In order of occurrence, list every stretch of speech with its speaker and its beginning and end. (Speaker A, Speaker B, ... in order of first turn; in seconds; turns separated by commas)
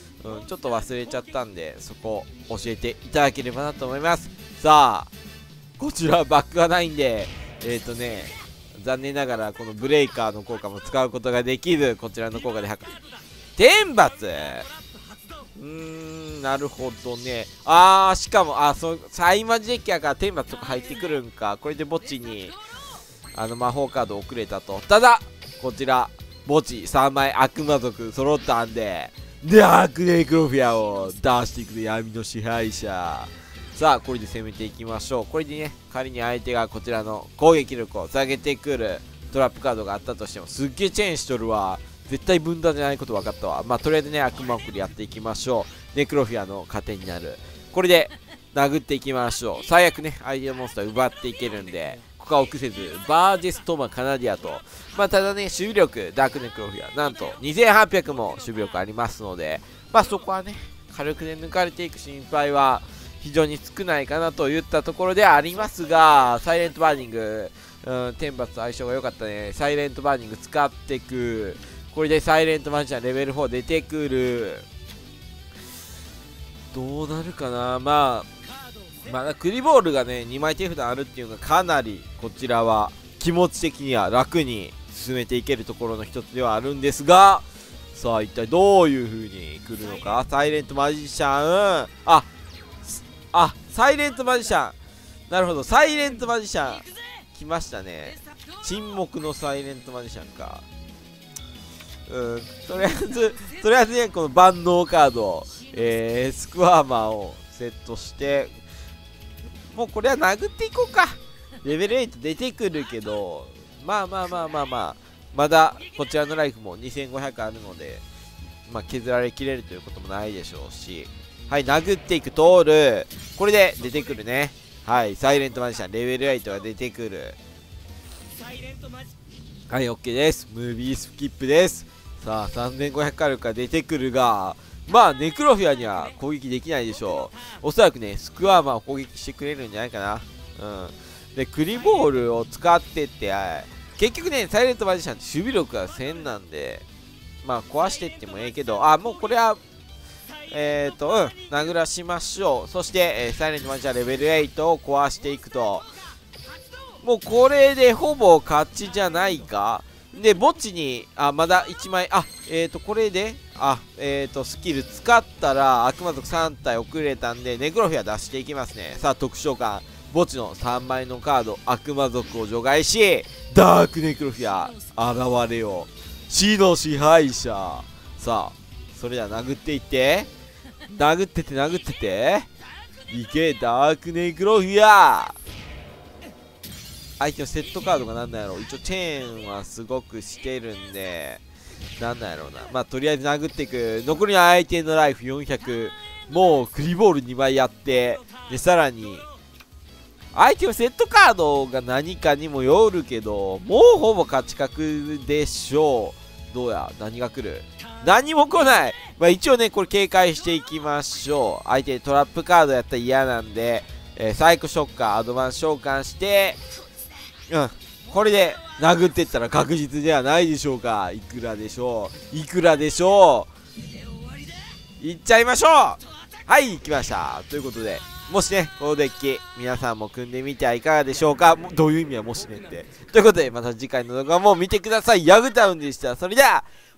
Speaker A: 0.2-5.1, Speaker A: 5.8-12.9, Speaker A: 13.6-14.7, Speaker A: 15.6-22.6, Speaker A: 23.3-74.7, Speaker A: 76.7-78.3, Speaker A: 79.0-92.3, Speaker A: 92.8-94.8, Speaker A: 95.3-100.7, Speaker A: 102.1-108.5, Speaker A: 109.7-118.0, Speaker A: 118.7-127.4, Speaker A: 129.7-146.9, Speaker A: 147.4-149.6, Speaker A: 150.5-155.9, Speaker A: 157.0-180.3, Speaker A: 180.9-182.5, Speaker A: 183.1-185.4, Speaker A: 187.2-191.4, Speaker A: 192.0-199.3, Speaker A: 200.3-216.6, Speaker A: 217.5-223.5, Speaker A: 225.0-236.7